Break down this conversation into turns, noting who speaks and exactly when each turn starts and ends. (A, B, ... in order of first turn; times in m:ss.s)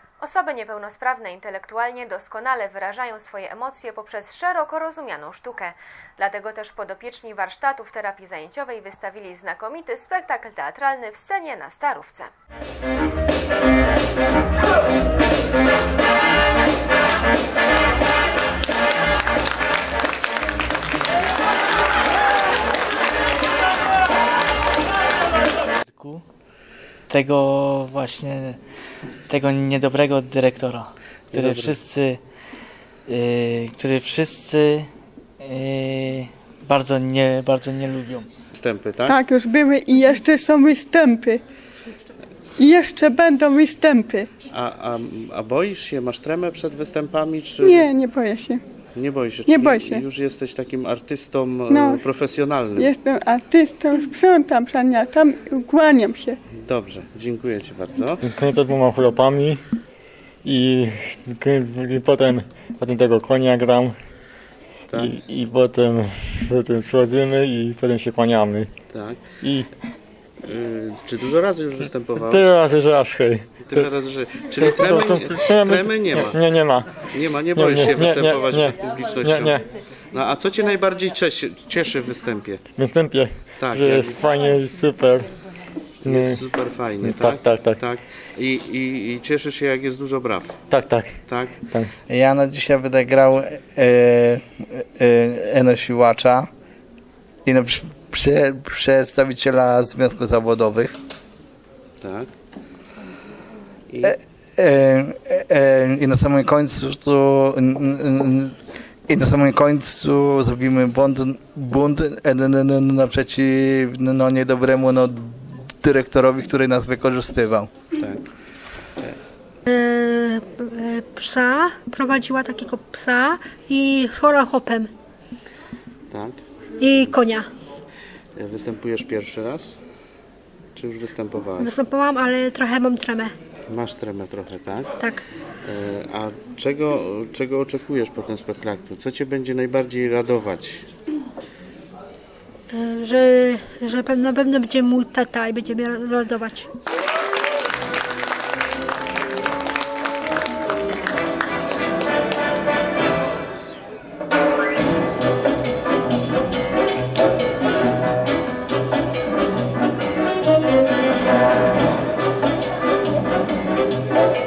0:00.2-0:12.3 A
0:25.9-0:26.2 B
0:27.1-0:28.6 B
0:29.3-0:32.2 B
0:31.3-0:31.8 C
0:33.1-0:34.9 B
0:35.4-0:38.3 B
0:38.5-0:39.2 C
0:39.0-0:41.4 D
0:42.6-0:44.3 D
0:44.5-0:47.9 C
0:47.6-0:48.6 D
0:48.9-0:52.9 C
0:49.4-0:50.0 D
0:51.7-0:52.0 D
0:52.8-0:56.4 D
0:56.6-0:58.2 C
0:58.2-0:59.6 E
1:00.4-1:04.0 E
1:04.9-1:05.1 C
1:04.9-1:08.7 E
1:08.9-1:09.2 C
1:09.4-1:09.7 E
1:10.4-1:12.5 C
1:12.2-1:13.9 E
1:13.6-1:16.4 C
1:14.6-1:19.6 E
1:17.1-1:22.6 C
1:22.7-1:25.3 E
1:23.6-1:24.2 C
1:26.0-1:30.6 C
1:26.0-1:26.4 E
1:27.0-1:27.8 E
1:30.7-1:31.2 E
1:31.3-1:31.6 C
1:32.1-1:36.5 F
1:37.4-1:40.9 F
1:42.0-1:42.3 C
1:43.9-1:44.1 C
1:44.0-1:48.5 F
1:49.1-1:57.7 F
1:58.0-1:58.3 C
1:59.7-2:04.9 G
2:06.1-2:06.4 C
2:06.8-2:07.5 G
2:06.9-2:07.2 C
2:08.4-2:09.8 C
2:10.8-2:11.8 C
2:11.6-2:13.3 G
2:13.7-2:15.1 C
2:15.6-2:20.8 C
2:22.7-2:26.7 G